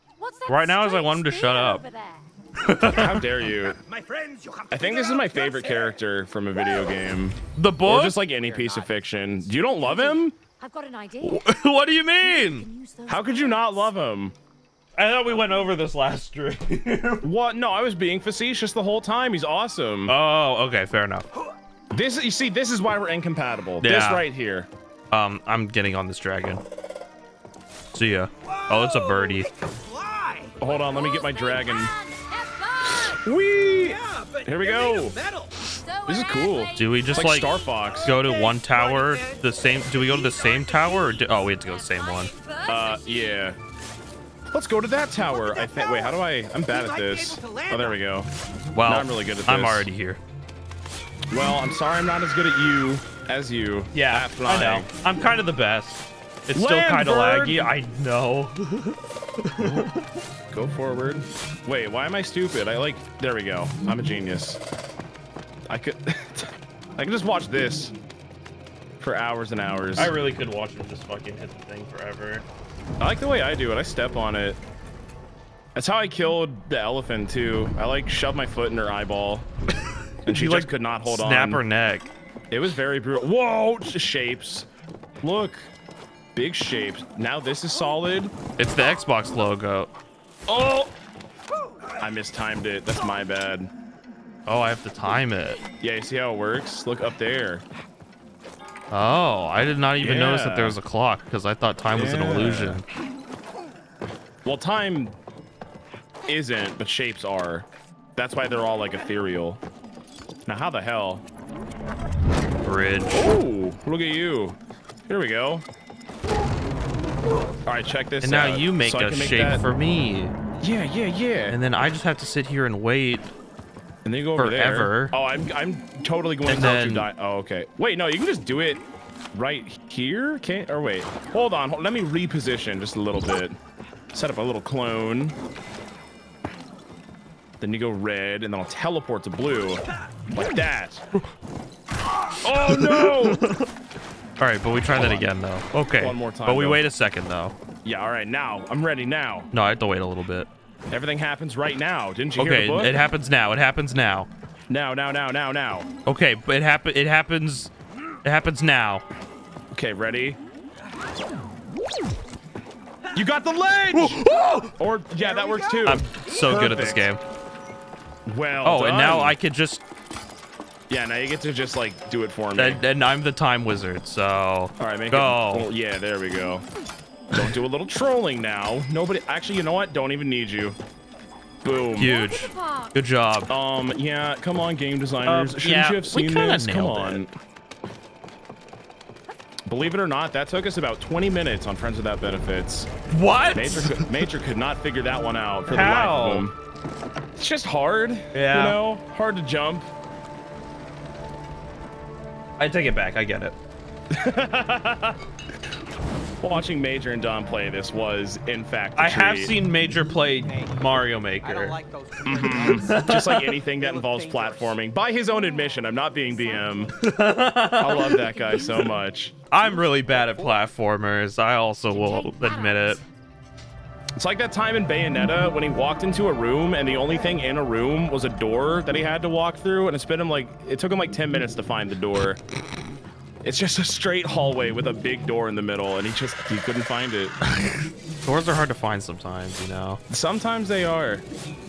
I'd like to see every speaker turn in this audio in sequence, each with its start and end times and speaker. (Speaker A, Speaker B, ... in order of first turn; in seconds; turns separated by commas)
Speaker A: 0.2-2.3, Speaker B: 0.5-1.8, Speaker B: 2.6-3.2, Speaker C: 2.9-3.8, Speaker D: 2.9-6.0, Speaker C: 4.7-10.3, Speaker B: 7.5-8.2, Speaker D: 8.2-10.2, Speaker A: 10.6-13.9, Speaker B: 11.2-12.7, Speaker C: 13.1-14.3, Speaker B: 14.9-17.3, Speaker C: 17.2-20.1, Speaker B: 20.1-21.3, Speaker C: 21.9-24.7, Speaker B: 23.8-24.2, Speaker B: 25.1-26.6, Speaker B: 27.9-29.5, Speaker D: 28.4-30.6, Speaker C: 30.6-31.9, Speaker A: 30.6-33.2, Speaker C: 32.8-35.2, Speaker D: 33.8-35.6, Speaker A: 35.6-38.0, Speaker C: 36.0-38.1, Speaker B: 36.7-42.3, Speaker D: 37.8-39.5, Speaker A: 39.9-43.5, Speaker C: 42.6-43.6, Speaker C: 44.5-48.3, Speaker D: 45.2-48.0, Speaker B: 48.7-50.2, Speaker C: 48.8-49.9, Speaker C: 51.3-54.9, Speaker B: 53.9-60.0, Speaker C: 56.5-57.7, Speaker C: 59.6-59.9, Speaker C: 60.5-64.6, Speaker C: 65.7-67.9, Speaker C: 69.0-70.1, Speaker B: 69.9-72.4, Speaker C: 73.0-74.6, Speaker C: 75.7-79.5, Speaker B: 80.2-82.1, Speaker C: 80.2-81.6, Speaker C: 82.5-84.7, Speaker C: 85.2-85.7, Speaker C: 86.3-88.3, Speaker B: 88.6-89.9, Speaker C: 90.5-90.9, Speaker C: 92.0-93.7, Speaker B: 94.5-95.6, Speaker C: 95.8-97.6, Speaker B: 98.9-102.8, Speaker C: 100.0-100.8, Speaker C: 101.9-102.8, Speaker C: 104.4-105.2, Speaker C: 106.3-109.6, Speaker C: 110.5-111.2, Speaker B: 112.6-113.3, Speaker C: 113.1-114.6, Speaker C: 115.1-115.6, Speaker C: 117.6-119.6, Speaker B: 118.2-120.3, Speaker C: 120.6-121.6, Speaker B: 121.5-123.3, Speaker C: 124.0-133.6, Speaker B: 124.4-125.1, Speaker B: 126.5-127.1, Speaker C: 134.1-135.4, Speaker C: 137.6-141.1, Speaker C: 142.4-143.4, Speaker B: 142.6-143.7, Speaker B: 144.4-147.5, Speaker C: 144.8-145.2, Speaker C: 145.9-146.8, Speaker C: 147.8-149.5, Speaker B: 149.5-150.5, Speaker C: 150.9-153.0, Speaker B: 152.4-154.3, Speaker C: 154.7-155.9, Speaker B: 156.1-157.7, Speaker B: 158.2-159.0, Speaker C: 159.7-160.4, Speaker C: 163.1-167.1, Speaker B: 163.9-164.7, Speaker D: 165.2-166.8, Speaker B: 165.8-167.2, Speaker C: 168.2-169.4, Speaker B: 168.6-169.8, Speaker C: 170.9-172.8, Speaker B: 172.6-175.7, Speaker C: 174.8-176.7, Speaker C: 177.3-180.8, Speaker C: 181.6-182.2, Speaker A: 181.6-182.9, Speaker B: 182.0-183.5, Speaker C: 183.5-187.3, Speaker B: 185.2-187.2, Speaker C: 189.7-192.9, Speaker B: 193.1-194.2, Speaker C: 193.5-196.6, Speaker B: 195.7-196.5, Speaker C: 197.4-199.9, Speaker B: 198.3-198.8, Speaker B: 202.6-203.6, Speaker C: 204.1-205.2, Speaker C: 206.4-209.6, Speaker B: 209.0-211.8, Speaker D: 210.4-214.8, Speaker C: 212.2-216.9, Speaker B: 212.4-213.5, Speaker A: 215.3-216.9, Speaker B: 217.0-218.2, Speaker C: 217.8-219.3, Speaker A: 218.1-218.8, Speaker B: 219.5-223.0, Speaker D: 220.1-220.6, Speaker A: 221.9-223.1, Speaker C: 224.2-232.4, Speaker C: 233.4-237.3, Speaker B: 237.4-240.0, Speaker C: 240.1-241.2